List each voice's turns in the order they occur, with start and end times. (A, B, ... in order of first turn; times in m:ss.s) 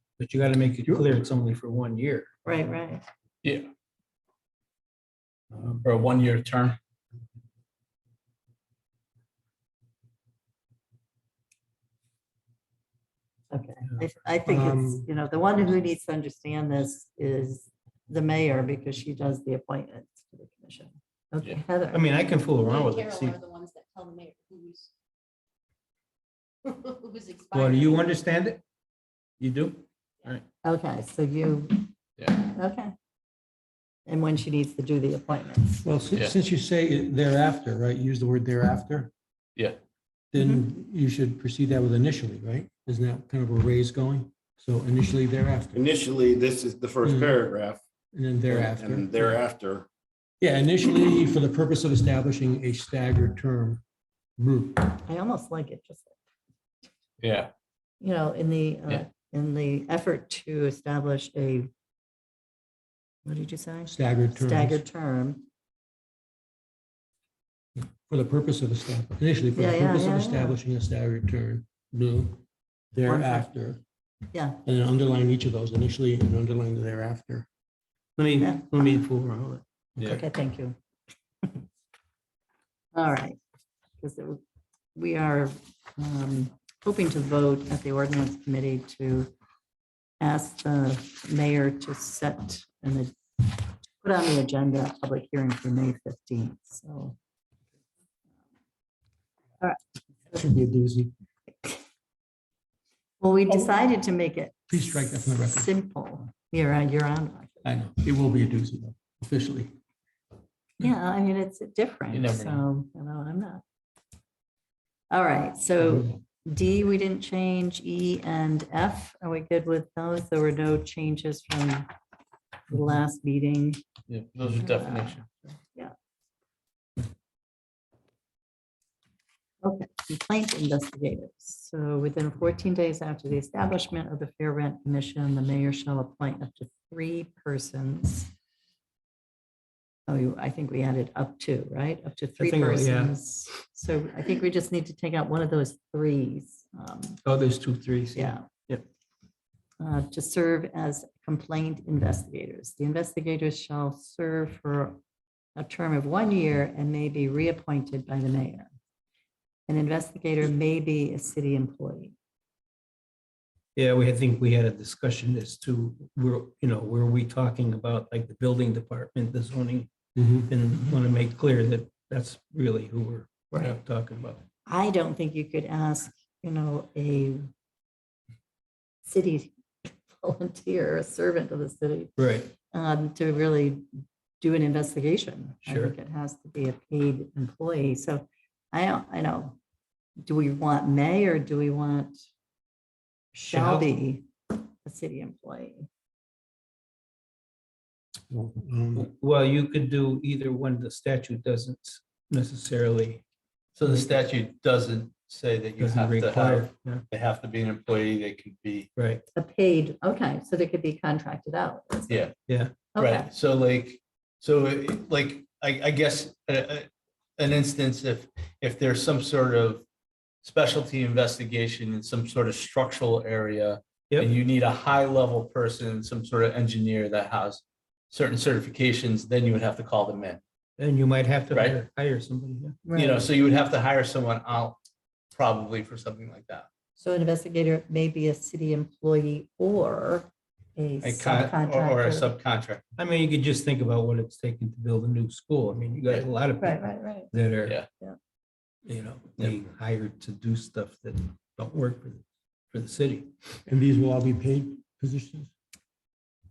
0:00.2-0:02.3 A
0:02.4-0:03.0 B
0:03.4-0:03.7 C
0:05.6-0:06.8 C
0:13.5-0:22.1 B
0:14.4-0:15.1 D
0:21.9-0:23.4 A
0:22.6-0:24.9 E
0:26.7-0:28.2 E
0:27.5-0:28.6 A
0:29.4-0:30.4 A
0:30.6-0:32.9 B
0:34.1-0:35.8 B
0:35.8-0:39.1 D
0:40.3-0:45.8 D
0:40.3-0:40.6 B
0:45.7-0:47.8 F
0:47.0-0:47.4 D
0:48.1-0:49.4 D
0:48.5-0:49.8 F
0:50.4-0:53.8 D
0:54.4-0:54.9 D
0:55.0-0:56.2 B
0:57.2-0:57.5 C
0:58.0-1:01.7 B
1:03.2-1:05.4 B
1:03.9-1:04.8 D
1:07.8-1:12.4 D
1:09.5-1:10.6 B
1:12.9-1:13.8 D
1:13.0-1:13.5 B
1:14.3-1:14.6 B
1:14.6-1:17.5 D
1:18.2-1:19.6 A
1:20.0-1:20.8 B
1:22.9-1:23.4 B
1:24.0-1:24.4 B
1:24.9-1:29.3 B
1:30.2-1:37.2 B
1:40.3-1:41.1 D
1:43.2-1:47.7 B
1:44.7-1:45.7 D
1:47.6-1:49.7 D
1:50.8-1:53.6 B
1:52.1-1:52.6 C
1:55.1-2:01.9 B
2:02.7-2:03.8 B
2:04.1-2:05.3 C
2:04.6-2:05.2 B
2:09.6-2:18.3 B
2:20.1-2:27.2 B
2:22.4-2:23.1 A
2:27.2-2:28.8 A
2:28.1-2:28.5 B
2:29.8-2:35.0 B
2:35.6-2:38.7 B
2:39.7-2:42.2 B
2:43.8-2:49.9 A
2:50.2-2:50.5 D
2:50.5-2:54.4 A
2:54.6-2:57.5 B
2:59.0-3:02.2 B
3:02.2-3:02.5 A
3:02.7-3:03.9 B
3:04.4-3:09.6 B
3:05.6-3:05.9 A
3:10.2-3:12.2 B
3:13.3-3:14.3 B
3:13.5-3:13.9 A
3:14.8-3:15.9 B
3:18.3-3:19.1 D
3:18.9-3:23.2 A
3:23.8-3:28.9 C
3:25.8-3:27.0 A
3:29.0-3:29.2 A
3:29.4-3:32.3 B
3:32.5-3:32.7 A
3:32.9-3:33.3 B
3:33.0-3:36.9 C
3:37.4-3:39.8 C
3:40.4-3:50.4 C
3:50.8-3:52.8 A
3:51.5-3:51.8 C
3:52.8-3:53.3 B
3:52.9-3:54.8 C
3:55.3-3:56.7 C
3:57.0-4:02.3 B
4:01.0-4:01.5 A
4:01.4-4:02.8 C
4:03.0-4:06.8 A
4:06.6-4:07.3 B
4:07.3-4:07.8 A
4:08.8-4:13.3 A
4:13.6-4:15.5 D